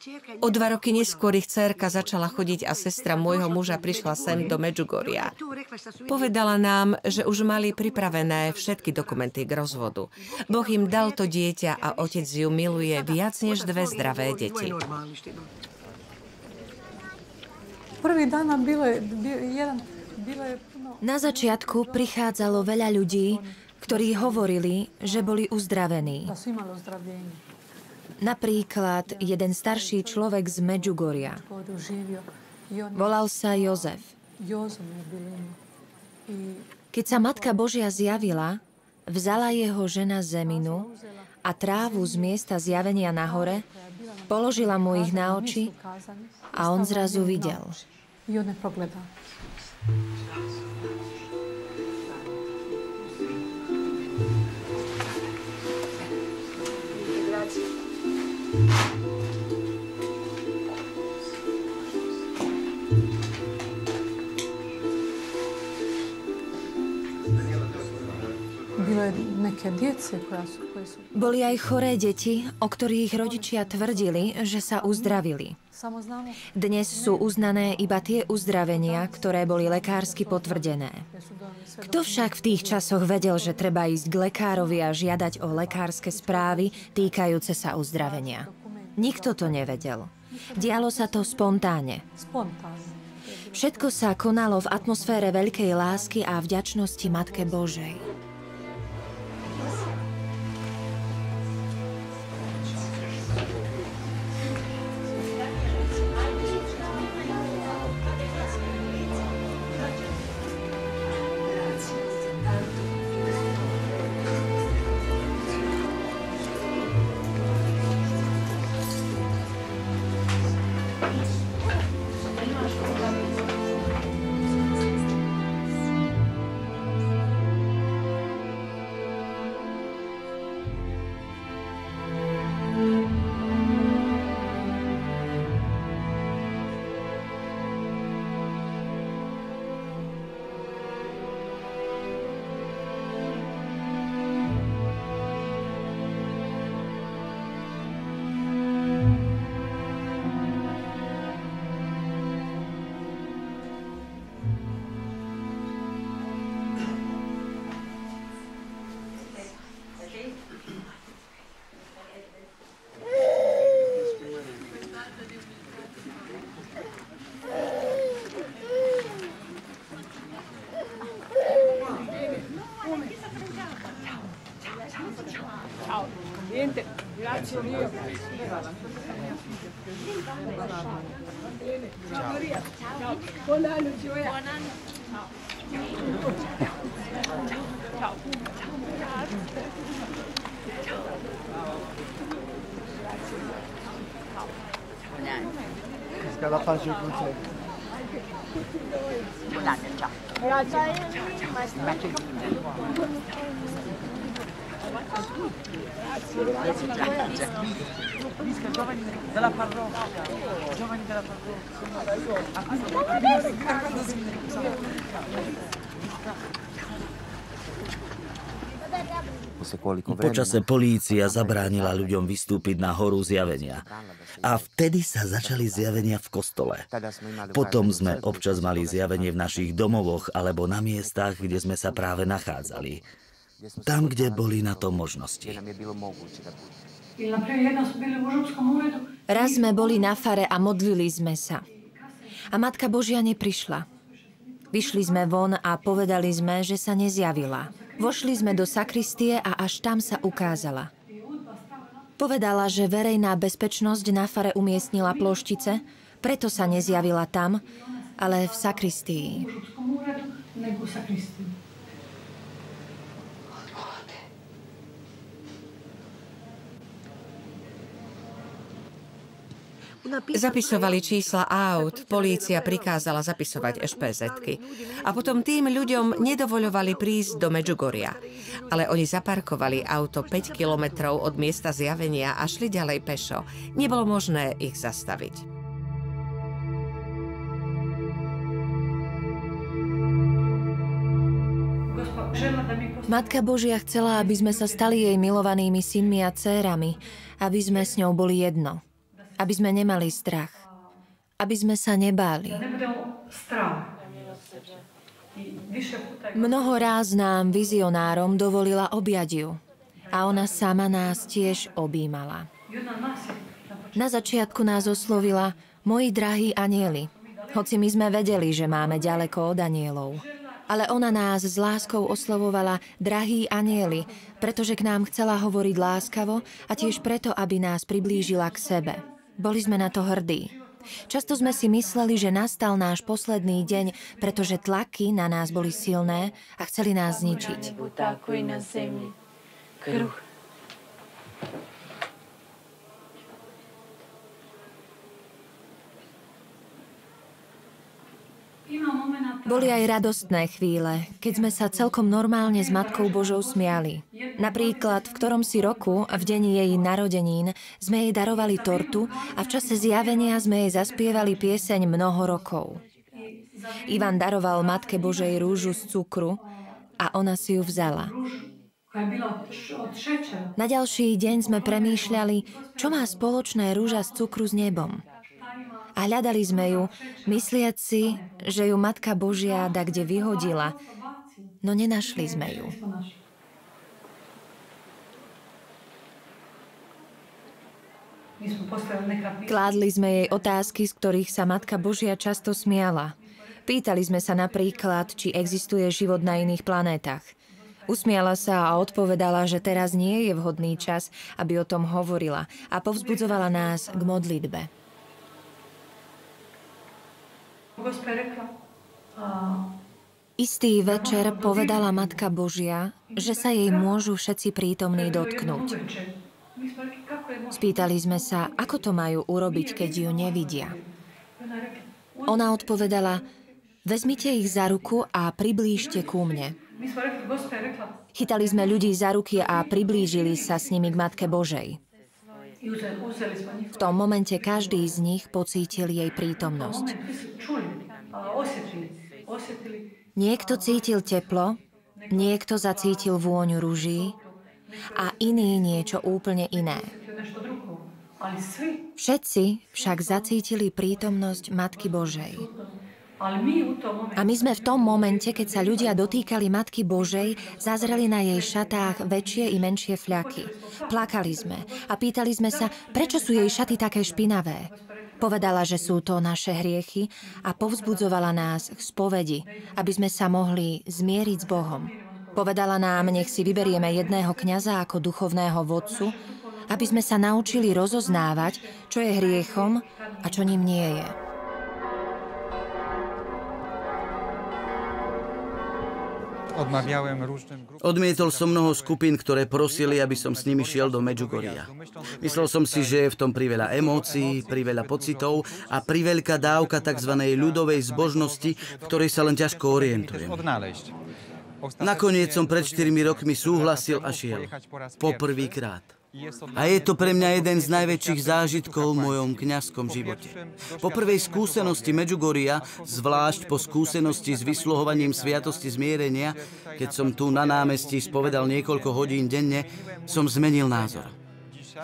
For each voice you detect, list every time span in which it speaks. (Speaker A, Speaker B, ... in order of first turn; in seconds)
Speaker A: 0.4-5.3, 6.1-14.8, 270.3-285.4
Speaker B: 18.0-24.5, 26.1-27.4, 29.1-33.2, 34.4-35.6, 36.3-38.4, 40.4-49.1, 68.8-71.6, 73.2-83.7, 84.5-84.8, 85.6-87.2, 88.0-89.7, 90.3-91.5, 92.1-94.0, 94.6-95.9, 237.2-240.5, 241.6-242.6, 243.9-246.3, 247.3-252.1, 254.7-255.8, 256.5-261.5, 291.9-293.5, 294.0-295.2, 299.1-300.0, 302.4-303.9, 305.3-307.0, 310.1-311.8, 312.7-315.5, 317.1-317.7, 318.7-319.3, 320.1-321.2, 321.8-322.7, 323.7-327.1, 328.0-332.5, 333.4-334.7, 335.5-335.9, 337.1-339.0, 348.7-356.9, 358.3-361.7, 362.2-362.5, 363.1-366.6, 367.6-370.5, 371.3-375.9, 376.4-378.5, 379.3-383.1, 388.4-390.7, 391.5-393.6, 394.1-396.6, 397.6-400.0, 400.6-400.9, 402.9-404.3, 407.8-408.5, 409.1-409.7, 410.9-412.2, 413.1-413.9, 414.9-420.8, 421.4-423.2, 424.0-424.7, 425.7-431.3, 432.6-434.9, 436.4-441.4, 442.0-448.9, 449.7-450.3, 451.7-456.3, 456.9-461.9, 462.5-466.0, 467.5-468.6, 469.4-470.1, 471.4-474.7, 475.8-480.7
Speaker C: 21.0-26.3, 28.2-31.4, 32.9-34.1, 36.9-40.9, 41.4-43.6, 44.3-45.7, 46.5-47.8, 71.1-75.6, 76.5-81.0, 81.8-92.0, 93.5-98.0, 239.3-241.6, 242.5-243.9, 244.7-250.9, 252.2-257.6, 258.2-259.5, 293.1-298.8, 299.4-300.6, 301.4-302.6, 306.3-309.6, 310.1-312.5, 313.9-330.5, 331.1-337.8, 349.4-362.8, 363.9-366.4, 367.0-368.1, 370.6-375.0, 375.9-380.7, 381.6-382.7, 389.5-397.3, 397.9-404.7, 410.4-415.8, 417.5-420.8, 422.2-423.2, 423.8-426.6, 428.1-431.8, 433.8-436.9, 440.1-441.6, 442.1-444.1, 444.9-446.9, 449.0-452.5, 454.1-476.2, 476.7-481.1
Speaker D: 220.0-223.9, 224.4-226.9, 227.5-233.1, 233.8-235.6
Speaker E: 487.8-500.4, 501.8-505.9, 506.5-521.1